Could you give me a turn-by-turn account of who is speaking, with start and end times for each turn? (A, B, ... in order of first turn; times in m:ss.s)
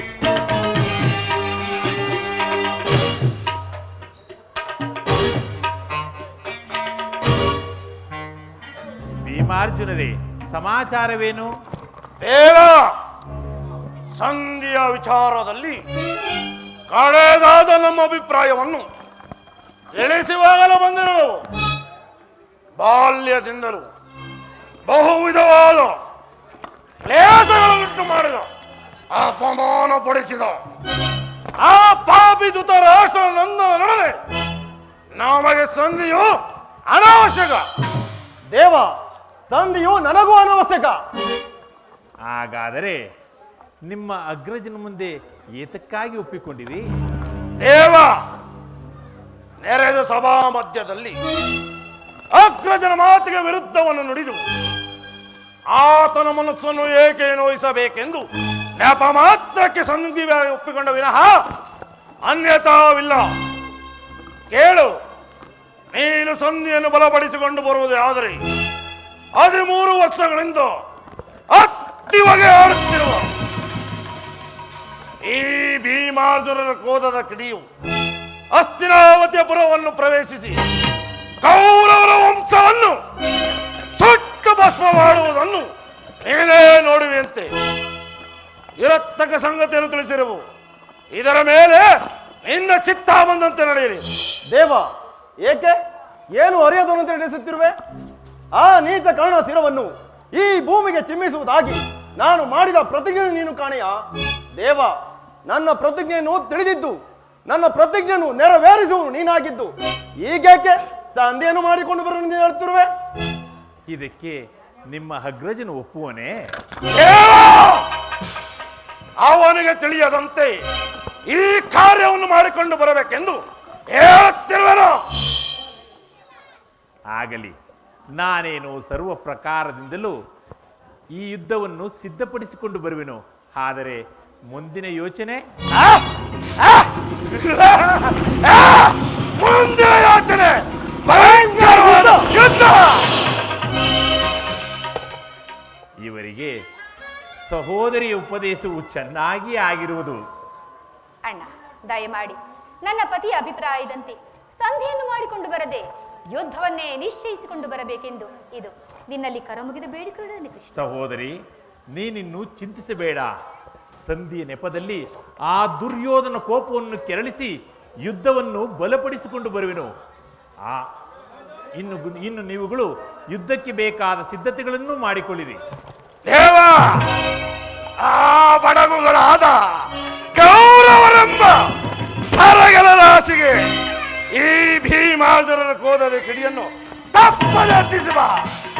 0:09.2-0:11.5 A
0:12.2-0:12.9 B
0:14.2-0:15.8 B
0:16.9-0:18.9 B
0:19.9-0:21.4 B
0:22.8-0:23.9 B
0:24.9-0:26.0 B
0:27.0-0:28.5 B
0:29.1-0:30.6 B
0:31.6-0:34.2 B
0:35.2-0:36.4 B
0:36.9-0:37.6 B
0:38.5-0:38.9 C
0:39.5-0:41.0 C
0:42.2-0:43.0 A
0:43.8-0:46.8 A
0:47.6-0:48.2 B
0:49.6-0:51.2 B
0:52.3-0:54.4 B
0:55.7-0:58.2 B
0:58.8-1:01.4 B
1:02.2-1:03.3 B
1:04.5-1:05.0 B
1:05.9-1:08.4 B
1:09.4-1:10.8 B
1:11.5-1:13.3 B
1:15.2-1:17.6 B
1:18.5-1:20.6 B
1:21.4-1:23.0 B
1:24.0-1:25.7 B
1:26.2-1:27.5 B
1:28.8-1:30.4 B
1:31.1-1:31.9 B
1:32.4-1:34.0 B
1:34.5-1:34.9 C
1:35.4-1:35.8 C
1:36.3-1:37.7 C
1:38.5-1:44.0 C
1:44.6-1:52.9 C
1:53.9-1:56.4 A
1:56.9-1:57.8 B
1:59.2-2:00.6 B
2:01.3-2:05.0 B
2:07.1-2:07.5 A
2:08.1-2:10.2 A
2:11.1-2:15.5 A
2:16.6-2:23.1 B
2:21.1-2:22.2 C
2:26.0-2:26.6 A
2:27.3-2:30.2 A
2:31.2-2:40.8 D
2:40.7-2:41.4 A
2:41.9-2:43.3 A
2:44.0-2:49.9 A
2:50.6-2:50.9 A
2:51.7-2:55.6 A
2:56.2-2:57.1 B
2:58.0-3:01.7 B
3:02.3-3:03.6 B
3:04.3-3:08.5 B